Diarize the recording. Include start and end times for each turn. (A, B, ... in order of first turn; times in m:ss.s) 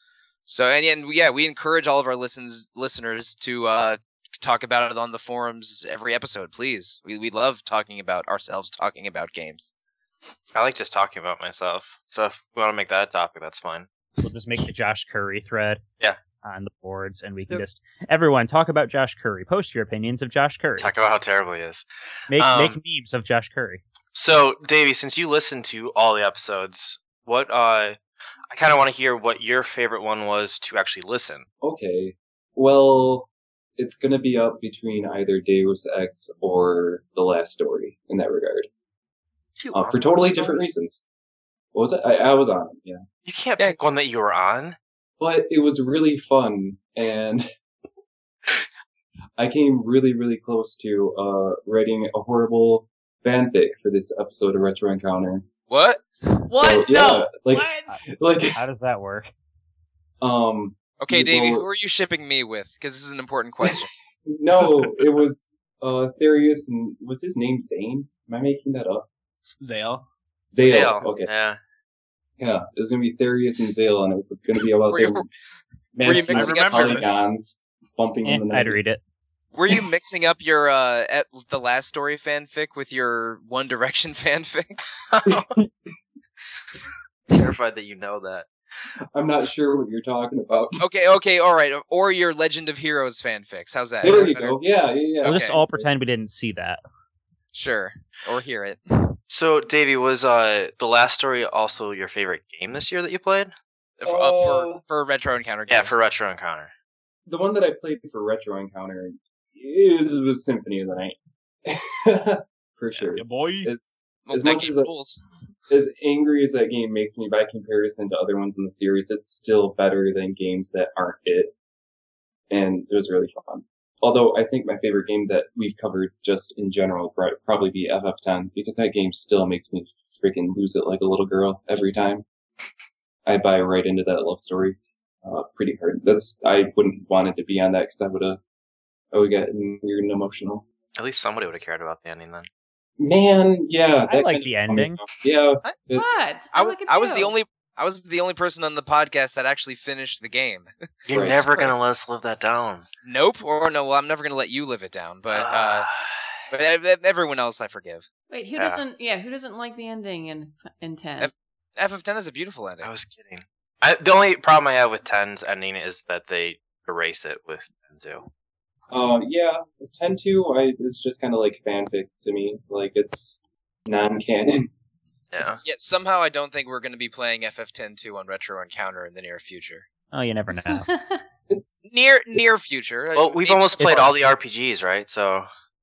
0:00.5-0:09.7 A
0:10.5-0:13.9 B
0:14.2-0:15.8 C
0:16.4-0:20.9 C
0:20.8-0:22.8 B
0:22.3-0:23.8 C
0:24.1-0:28.0 B
0:28.5-0:31.4 B
0:31.6-0:38.7 D
0:39.6-0:40.6 B
0:39.7-0:41.0 D
0:41.7-0:43.0 D
0:43.2-0:44.8 B
0:45.2-0:47.4 D
0:49.4-0:55.5 D
0:55.7-0:56.4 A
0:56.5-0:57.3 E
0:56.5-0:58.6 D
0:58.5-0:59.3 C
1:00.2-1:01.6 D
1:01.0-1:03.9 A
1:04.3-1:09.1 D
1:09.4-1:10.0 F
1:10.5-1:11.3 D
1:10.6-1:11.6 B
1:12.4-1:15.3 D
1:14.9-1:15.3 A
1:15.9-1:18.8 D
1:16.0-1:17.2 A
1:16.3-1:16.8 F
1:18.2-1:19.0 C
1:19.5-1:24.9 A
1:25.1-1:25.6 B
1:25.3-1:25.7 D
1:27.3-1:28.5 B
1:29.1-1:30.8 D
1:30.8-1:34.6 A
1:34.0-1:35.9 D
1:35.2-1:36.8 C
1:35.2-1:35.6 A
1:37.5-1:39.2 A
1:39.3-1:43.5 B
1:44.0-1:46.0 A
1:44.0-1:44.8 F
1:45.7-1:46.7 B
1:47.3-1:54.9 D
1:53.1-1:53.7 F
1:54.2-1:55.2 A
1:55.7-2:01.5 D
2:02.5-2:12.2 D
2:13.2-2:18.4 D
2:19.1-2:20.6 D
2:21.0-2:22.5 B
2:23.0-2:26.1 D
2:24.1-2:25.0 C
2:25.9-2:27.3 E
2:26.5-2:30.7 A
2:31.1-2:32.8 B
2:31.1-2:31.7 D
2:33.0-2:35.9 A
2:35.3-2:36.4 B
2:36.5-2:38.0 A
2:38.3-2:41.3 E
2:41.2-2:42.9 A
2:42.8-2:48.2 B
2:48.9-2:54.7 D
2:55.3-2:55.6 B
2:55.6-2:59.9 A
3:00.1-3:00.9 C
3:00.5-3:01.2 E
3:01.5-3:02.4 D
3:01.8-3:04.1 A
3:03.2-3:05.5 B
3:03.8-3:04.1 C